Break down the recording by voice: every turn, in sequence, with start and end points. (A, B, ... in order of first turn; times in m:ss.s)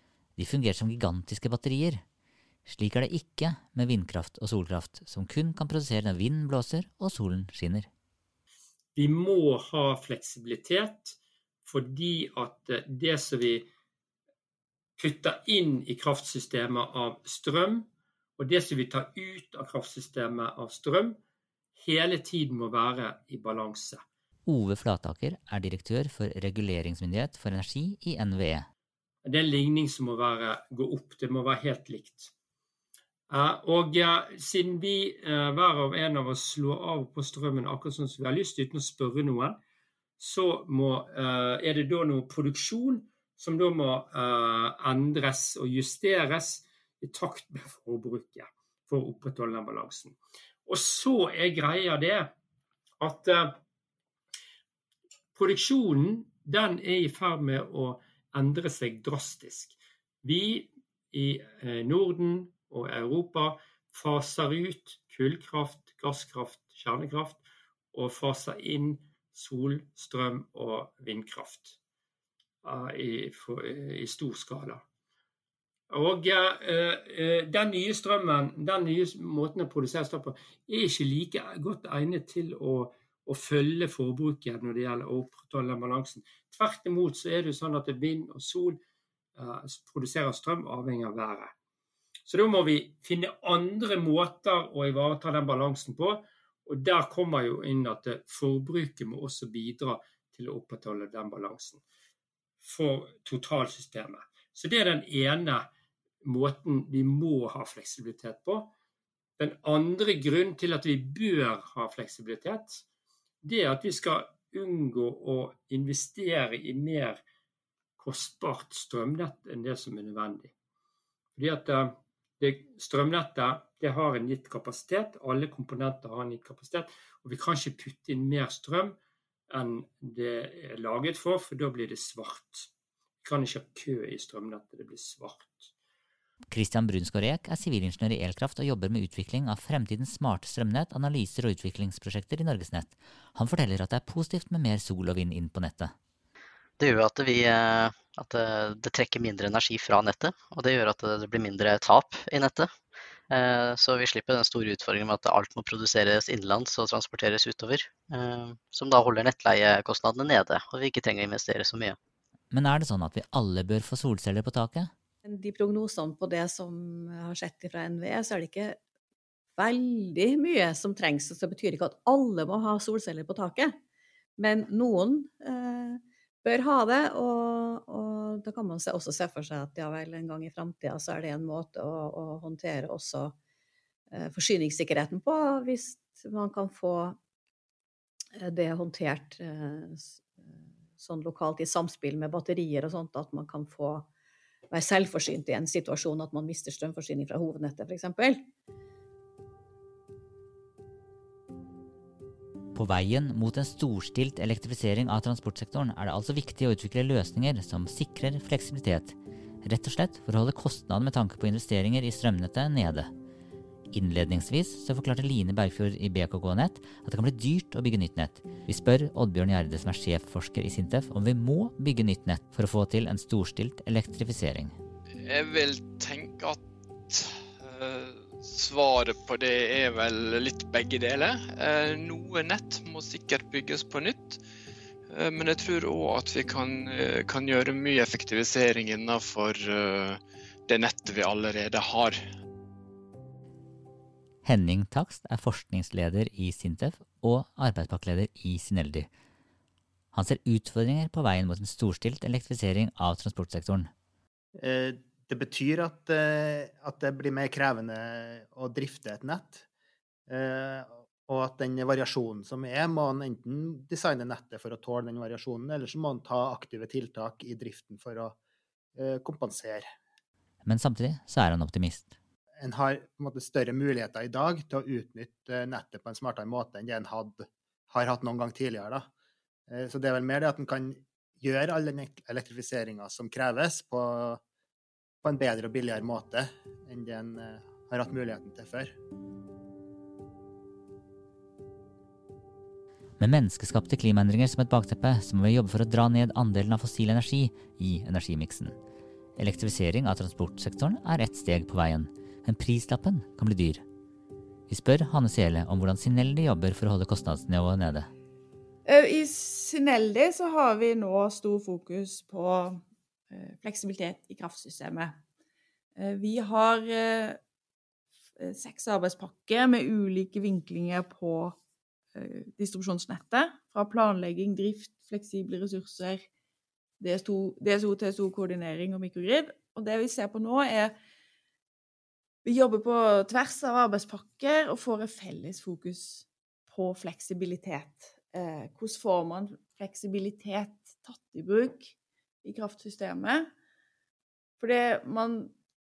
0:00.4-0:02.0 A
0:02.6-0:07.9 A
0:08.9-0:13.6 B
0:15.0-0:17.8 B
0:18.4-0:21.2 B
0:21.8-0:24.0 B
0:24.4-0:28.7 A
0:29.2-0:32.3 B
0:33.3-0:39.6 B
0:40.2-0:52.3 B
0:53.0-0:53.6 B
0:55.3-1:07.4 B
1:07.9-1:11.8 B
1:12.6-1:14.8 B
1:15.9-1:28.8 B
1:29.4-1:31.5 B
1:32.2-1:41.8 B
1:42.6-1:45.7 B
1:46.2-1:48.7 B
1:49.4-1:52.8 B
1:53.4-1:57.2 B
1:58.0-2:00.5 B
2:01.4-2:09.0 B
2:09.5-2:12.7 B
2:13.2-2:15.7 B
2:16.5-2:25.9 A
2:26.8-2:32.7 C
2:33.3-2:42.0 C
2:42.5-2:44.9 A
2:45.2-2:48.8 D
2:49.6-2:53.7 D
2:54.4-3:03.3 D
3:04.1-3:07.2 D
3:08.4-3:10.2 D
3:11.0-3:14.1 D
3:14.7-3:18.4 D
3:22.7-3:33.1 A
3:33.9-3:44.7 A
3:45.3-3:46.6 E
3:47.1-3:54.4 E
3:55.1-4:00.2 E
4:00.7-4:02.2 E
4:04.4-4:09.1 A
4:10.1-4:13.9 A
4:14.6-4:19.6 F
4:20.3-4:28.4 F
4:29.0-4:29.9 F
4:30.6-4:32.1 A
4:32.6-4:39.1 F
4:39.7-4:44.4 F
4:45.2-4:48.9 F
4:53.2-4:58.7 A
4:59.4-5:03.8 A
5:04.7-5:08.1 A
5:08.8-5:15.2 G
5:16.0-5:17.4 G
5:18.4-5:21.6 G
5:22.1-5:26.2 G
5:27.0-5:30.9 G
5:32.4-5:41.9 G
5:42.4-5:43.5 G
5:44.6-5:45.5 G